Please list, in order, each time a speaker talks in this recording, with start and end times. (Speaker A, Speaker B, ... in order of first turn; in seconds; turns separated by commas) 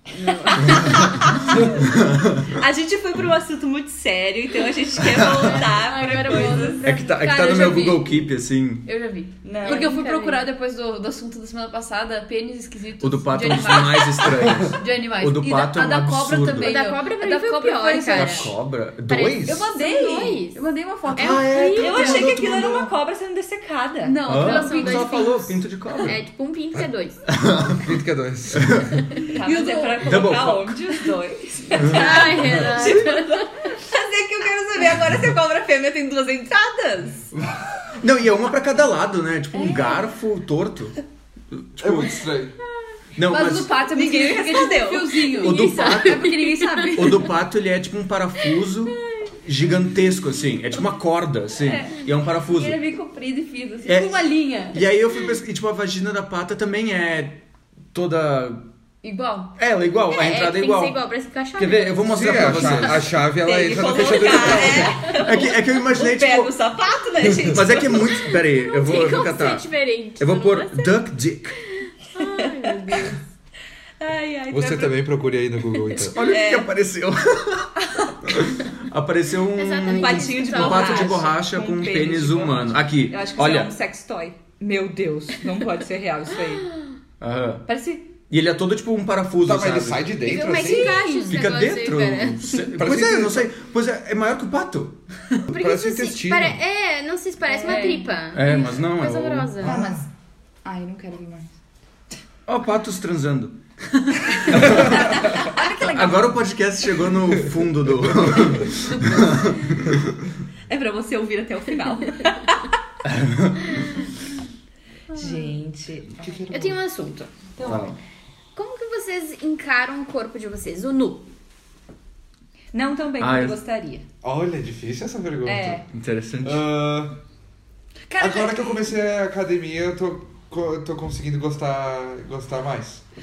Speaker A: 0.1-1.1, Speaker B: 0.4-1.9, Speaker C: 0.7-2.6, Speaker B: 2.4-6.8, Speaker C: 5.1-5.5, Speaker D: 5.3-6.9, Speaker C: 6.1-8.9, Speaker A: 6.8-8.3, Speaker A: 8.8-18.6, Speaker B: 9.4-10.0, Speaker D: 9.6-10.5, Speaker C: 13.0-16.8, Speaker D: 16.6-20.6, Speaker C: 18.1-19.7, Speaker A: 19.4-22.4, Speaker C: 21.1-22.9, Speaker D: 21.1-22.3, Speaker B: 21.8-24.3, Speaker A: 24.0-25.4, Speaker C: 24.2-26.2, Speaker D: 24.3-27.2, Speaker C: 27.3-27.9, Speaker E: 27.7-29.0, Speaker C: 28.6-29.0, Speaker B: 29.3-37.3, Speaker A: 29.4-30.3, Speaker C: 30.0-30.8, Speaker D: 31.8-33.7, Speaker C: 32.8-33.1, Speaker E: 37.4-37.7, Speaker C: 38.0-41.0, Speaker B: 39.7-40.0, Speaker C: 41.5-42.2, Speaker E: 41.8-42.6, Speaker C: 43.2-43.8, Speaker A: 43.2-47.3, Speaker B: 43.8-45.6, Speaker C: 45.3-46.4, Speaker D: 45.4-46.9, Speaker C: 46.9-52.8, Speaker B: 51.6-53.9, Speaker A: 53.9-54.8, Speaker C: 53.9-57.4, Speaker C: 57.9-58.7, Speaker A: 59.0-59.6, Speaker C: 59.6-61.0, Speaker D: 60.1-62.8, Speaker C: 61.6-63.2, Speaker E: 62.1-65.0, Speaker B: 63.2-68.3, Speaker C: 64.5-66.5, Speaker C: 67.4-71.6, Speaker D: 68.4-71.0, Speaker D: 71.5-73.2, Speaker B: 72.2-73.1, Speaker B: 74.0-75.2, Speaker E: 74.5-76.2, Speaker C: 76.0-83.7, Speaker B: 76.2-76.7, Speaker D: 79.5-81.3, Speaker B: 79.9-86.7, Speaker D: 86.7-86.9, Speaker C: 87.2-87.7, Speaker B: 87.7-88.1, Speaker C: 88.3-90.1, Speaker E: 89.4-91.0, Speaker D: 90.2-92.6, Speaker A: 90.5-91.4, Speaker C: 91.3-95.0, Speaker E: 92.7-93.5, Speaker E: 95.5-96.6, Speaker D: 95.5-99.8, Speaker B: 97.5-98.1, Speaker A: 97.7-98.0, Speaker C: 98.3-99.7, Speaker B: 99.6-100.1, Speaker E: 99.6-100.0, Speaker B: 100.6-101.5, Speaker C: 102.5-103.6, Speaker C: 104.5-110.2, Speaker B: 104.5-106.1, Speaker E: 104.6-104.9, Speaker A: 105.4-106.3, Speaker A: 108.9-109.3, Speaker B: 110.7-112.7, Speaker C: 113.0-113.8, Speaker B: 115.1-116.5, Speaker E: 116.2-116.8, Speaker D: 116.5-117.3, Speaker B: 117.6-118.0, Speaker C: 117.6-118.0, Speaker D: 118.5-121.3, Speaker B: 122.7-124.0, Speaker C: 123.2-123.6, Speaker E: 124.2-125.8, Speaker B: 125.5-125.9, Speaker C: 125.9-126.6, Speaker E: 126.4-127.2, Speaker A: 128.1-128.8, Speaker E: 128.2-133.0